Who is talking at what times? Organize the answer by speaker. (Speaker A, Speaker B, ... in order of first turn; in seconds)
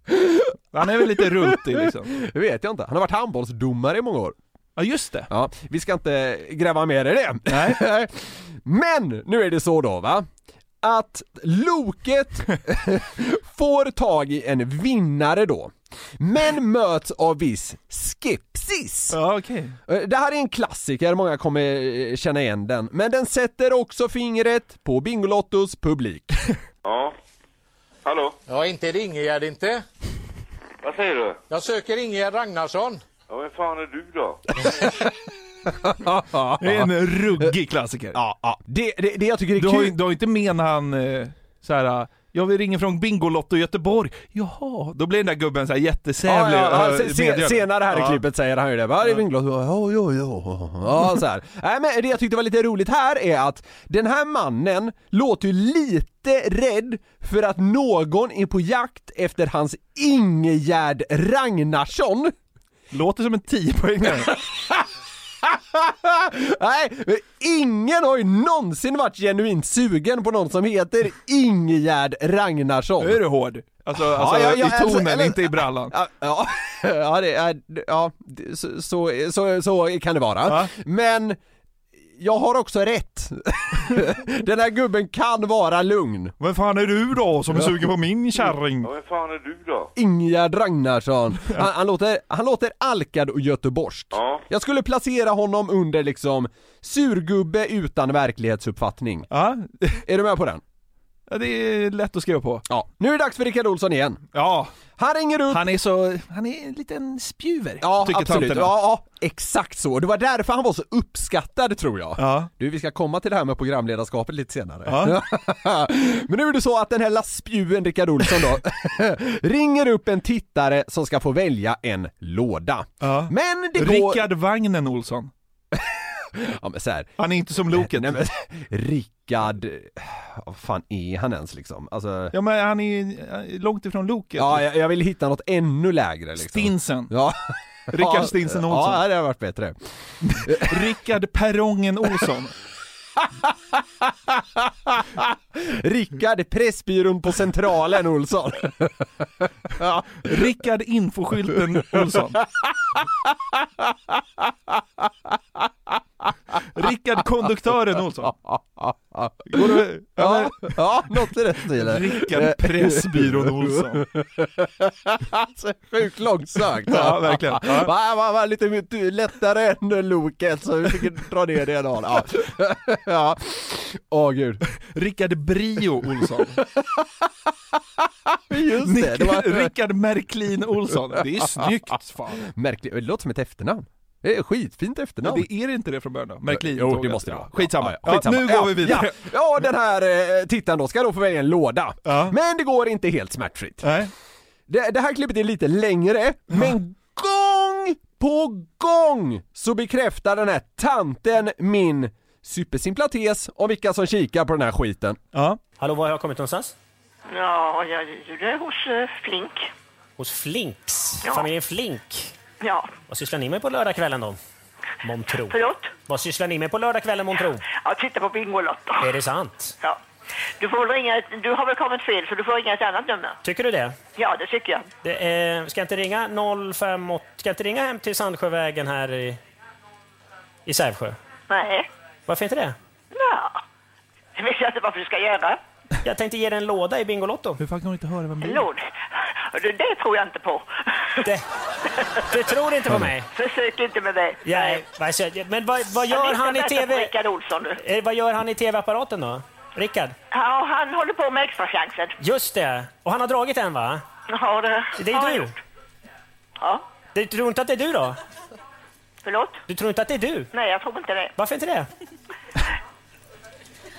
Speaker A: 0.1-0.5, 1.2-4.4, 5.3-10.3, 10.8-19.2, 19.9-26.4, 35.7-37.5, 38.1-40.0, 46.2-62.3, 64.5-64.7, 65.4-73.2, 74.0-81.4, 82.2-86.3, 90.0-99.3, 100.1-100.6, 102.7-104.2, 105.0-105.7, 107.8-124.2, 125.7-127.1, 127.7-132.3, 134.4-139.8, 140.4-140.9, 143.2-150.3, 151.9-155.1, 158.2-174.6, 176.6-177.3, 178.0-179.7, 182.4-185.5, 186.5-193.9, 194.7-205.2
Speaker B: 0.7-2.2, 4.8-5.3, 7.5-7.8, 19.1-19.8, 36.6-38.2, 39.6-48.2, 62.9-64.4, 73.0-76.0, 80.5-80.7, 86.4-88.9, 99.3-100.0, 101.3-102.7, 104.3-104.7, 105.5-108.7, 112.2-112.5, 114.9-115.2, 123.0-125.3, 127.2-128.2, 132.3-134.7, 136.4-137.1, 137.9-139.0, 140.2-142.5, 150.2-152.4, 156.7-158.3, 159.5-160.8, 161.7-164.1, 166.9-167.9, 174.9-176.6, 178.8-182.5, 185.2-189.2, 192.1-192.3, 193.8-194.1, 205.3-205.6, 237.6-238.7
Speaker C: 26.9-27.1, 28.1-28.4, 30.8-31.4, 33.3-34.4, 88.8-89.9, 94.1-94.4
Speaker D: 28.5-29.8, 31.5-33.0
Speaker E: 205.8-206.7, 210.2-212.3, 213.1-214.4, 215.0-217.6, 219.0-219.8, 223.4-224.0, 225.0-229.4, 230.7-231.2, 232.3-232.8, 236.0-237.6, 242.3-243.3, 244.4-247.1, 247.8-250.2, 252.2-254.0, 255.0-255.5, 257.1-258.2, 259.7-260.5, 261.4-261.9
Speaker F: 207.3-209.7, 211.2-211.5, 212.6-213.0, 215.4-216.0, 217.3-219.1, 220.6-223.4, 224.2-224.9, 231.5-231.9, 233.1-233.6, 234.4-235.6, 238.4-240.7, 243.3-244.8, 246.1-247.8, 250.3-252.2, 254.3-255.5, 256.6-256.9, 259.2-259.6, 260.5-261.3